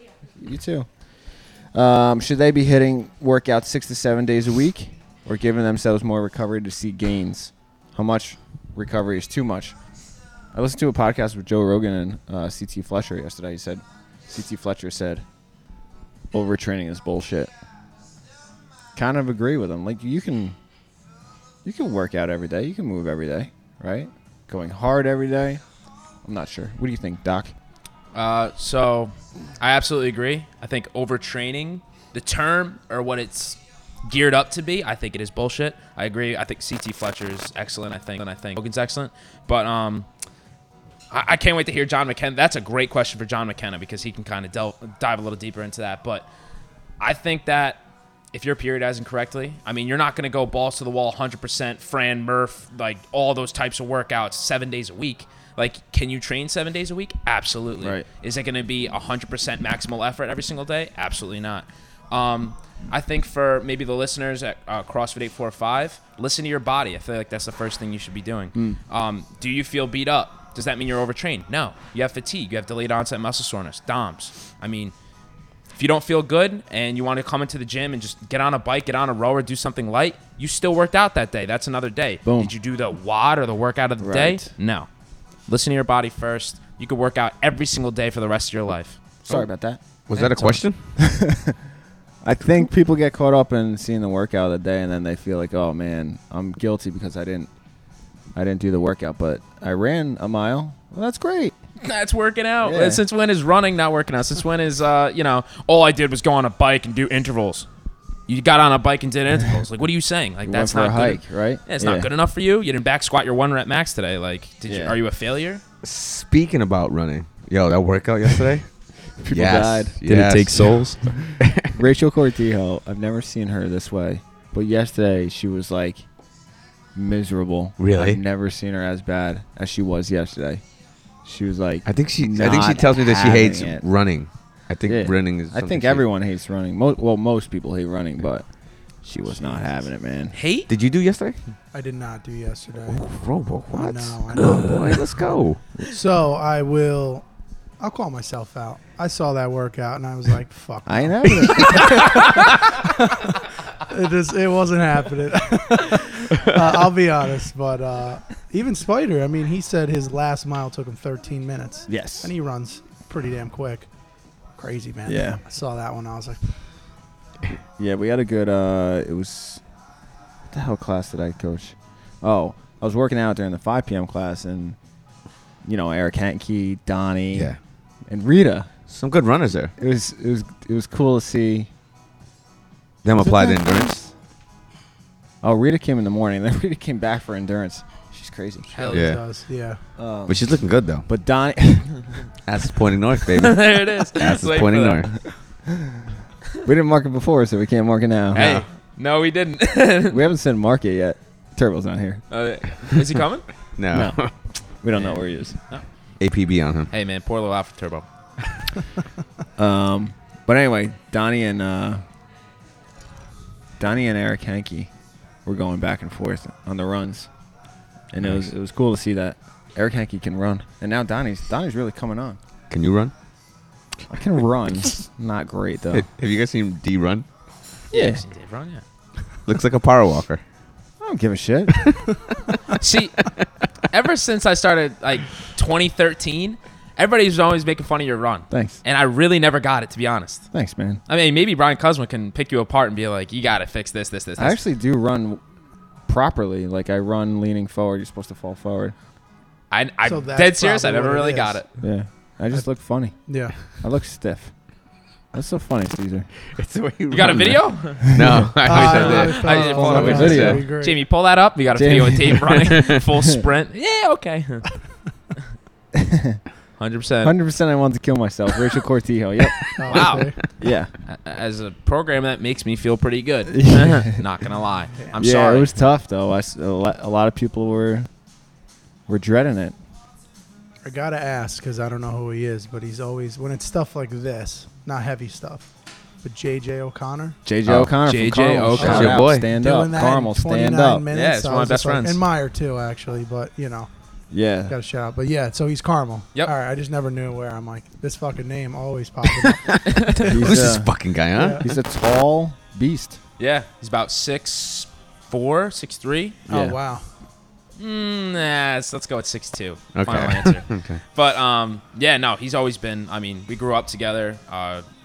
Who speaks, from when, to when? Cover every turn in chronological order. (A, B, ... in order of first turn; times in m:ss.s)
0:00.4-0:00.9 A
0:01.7-0:09.7 A
0:10.5-0:15.2 A
0:16.3-0:17.5 A
0:19.0-0:20.6 A
0:21.6-0:25.6 A
0:26.2-0:27.5 A
0:28.1-0:40.1 B
0:41.1-0:46.3 B
0:47.0-0:47.8 B
0:48.3-1:14.9 B
0:57.8-0:58.1 A
1:15.7-1:24.9 B
1:22.2-1:22.5 A
1:24.0-1:24.5 A
1:25.5-1:29.0 B
1:29.3-1:29.8 A
1:30.1-1:30.9 C
1:30.1-1:30.6 B
1:31.0-1:31.6 A
1:32.2-1:37.5 A
1:38.3-1:41.5 A
1:41.8-1:47.7 B
1:42.6-1:43.0 A
1:48.3-1:55.6 B
1:50.4-1:52.1 A
1:54.7-1:55.0 A
1:55.8-2:01.7 C
1:59.2-2:00.0 A
2:00.0-2:01.3 B
2:01.6-2:06.0 A
2:06.9-2:10.6 A
2:07.8-2:08.2 C
2:11.2-2:13.8 A
2:11.8-2:16.0 C
2:14.9-2:18.5 A
2:19.0-2:20.3 A
2:20.3-2:20.7 B
2:20.7-2:21.4 C
2:21.7-2:23.0 D
2:22.9-2:25.6 C
2:23.7-2:25.2 D
2:25.8-2:27.2 D
2:27.8-2:43.9 D
2:30.8-2:32.2 A
2:31.4-2:31.7 C
2:41.9-2:42.3 A
2:44.6-2:46.6 D
2:45.0-2:45.4 A
2:47.8-2:49.6 A
2:50.5-2:54.8 A
2:55.6-2:57.5 A
2:58.1-2:58.7 A
2:58.9-2:59.7 C
2:59.8-3:01.7 A
3:03.0-3:04.1 C
3:05.4-3:08.7 A
3:08.7-3:09.8 D
3:08.9-3:09.2 C
3:10.0-3:10.4 A
3:10.3-3:11.1 C
3:11.0-3:12.1 A
3:12.4-3:15.3 C
3:13.4-3:15.3 B
3:16.6-3:18.5 A
3:18.3-3:18.6 C
3:18.3-3:20.2 B
3:20.1-3:22.2 A
3:22.3-3:23.6 B
3:23.8-3:24.3 C
3:23.9-3:25.6 A
3:24.9-3:25.8 B
3:26.2-3:26.9 C
3:26.9-3:28.0 B
3:29.6-3:32.0 A
3:33.8-3:34.9 A
3:35.4-3:37.3 A
3:38.1-3:42.4 A
3:42.7-3:43.1 C
3:44.1-3:46.1 A
3:45.9-3:47.2 C
3:47.9-3:48.8 B
3:47.9-3:48.2 A
3:49.4-3:50.4 C
3:51.0-3:51.9 A
3:52.8-4:00.5 B
3:58.5-3:58.8 A
4:00.5-4:01.0 A
4:01.1-4:04.6 B
4:04.4-4:05.4 A
4:06.1-4:08.9 A
4:09.7-4:11.7 B
4:10.0-4:11.6 D
4:11.8-4:14.5 A
4:13.2-4:13.6 D
4:15.3-4:16.3 A
4:16.5-4:20.6 C
4:17.1-4:24.8 B
4:18.1-4:18.5 A
4:18.6-4:21.0 D
4:19.8-4:20.6 A
4:21.7-4:22.5 A
4:22.4-4:22.9 C
4:25.9-4:26.4 A
4:26.8-4:27.3 B
4:27.2-4:30.9 A
4:29.8-4:30.4 D
4:29.9-4:30.5 B
4:31.0-4:35.7 B
4:33.5-4:34.1 A
4:35.2-4:38.1 A
4:39.1-4:39.8 A
4:40.8-4:45.7 D
4:46.2-4:47.4 D
4:47.4-4:51.0 A
4:47.6-4:47.9 C
4:48.0-4:49.2 B
4:48.8-4:49.4 C
4:48.8-4:53.9 D
4:51.1-4:52.2 B
4:54.3-4:54.7 A
4:54.7-5:00.0 D
4:59.9-5:00.3 B
5:00.2-5:01.7 C
5:00.3-5:00.9 A
5:01.3-5:01.6 D
5:01.6-5:03.2 A
5:03.4-5:06.4 B
5:06.5-5:06.8 A
5:06.5-5:07.0 D
5:07.8-5:14.8 B
5:09.9-5:11.0 C